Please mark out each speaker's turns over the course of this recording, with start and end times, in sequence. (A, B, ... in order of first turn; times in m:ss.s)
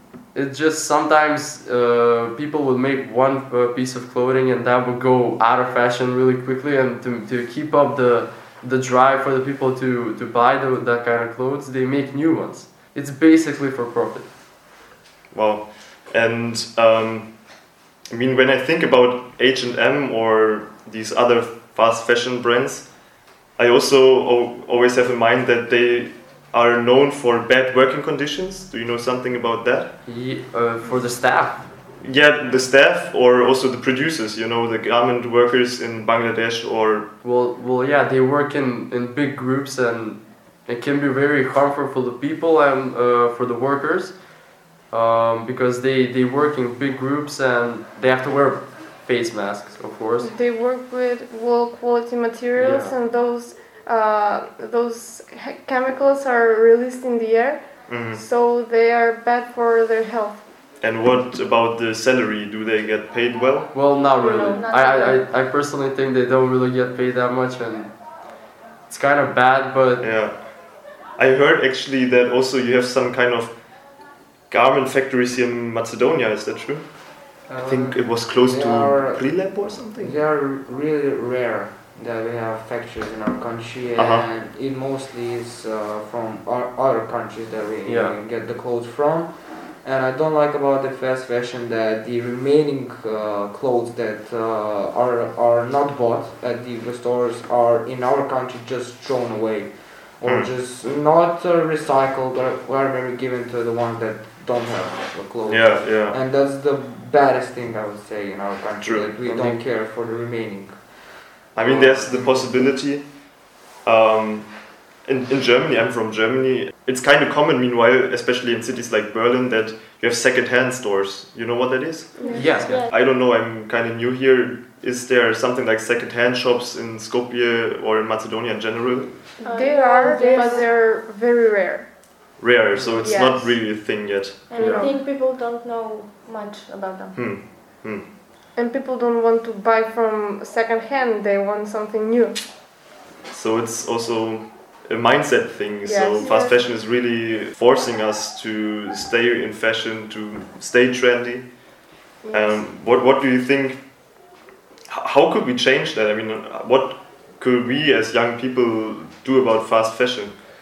0:00.3-0:14.3 A
0:15.3-0:17.5 B
0:18.1-0:22.9 B
0:23.6-0:30.0 B
0:30.0-0:31.7 A
0:32.0-0:37.1 B
0:37.2-0:44.3 A
0:44.9-0:50.3 A
0:50.2-1:00.4 C
0:52.6-0:52.9 A
0:57.9-0:58.2 B
1:00.8-1:03.7 B
1:03.7-1:07.9 A
1:04.2-1:05.2 D
1:08.9-1:10.1 A
1:10.0-1:10.5 B
1:11.2-1:13.6 B
1:14.5-1:16.9 B
1:17.5-1:51.2 E
1:17.6-1:20.2 B
1:24.0-1:24.3 B
1:27.8-1:28.2 A
1:40.2-1:40.5 B
1:45.5-1:46.2 B
1:48.8-1:49.1 B
1:49.2-1:49.6 A
1:51.5-1:53.1 B
1:51.6-1:52.4 A
1:53.8-1:54.5 B
1:55.0-2:02.3 B
2:02.2-2:02.9 D
2:02.2-2:02.6 C
2:02.4-2:02.8 A
2:02.8-2:09.1 B
2:09.4-2:10.7 D
2:09.5-2:11.9 C
2:12.4-2:14.5 B
2:12.8-2:13.1 E
2:13.0-2:13.6 C
2:14.5-2:17.2 D
2:14.6-2:14.9 C
2:17.2-2:18.1 B
2:18.6-2:22.4 C
2:23.3-2:31.5 B
2:25.8-2:26.7 C
2:32.2-2:32.6 C
2:32.3-2:33.8 B
2:34.9-2:40.3 B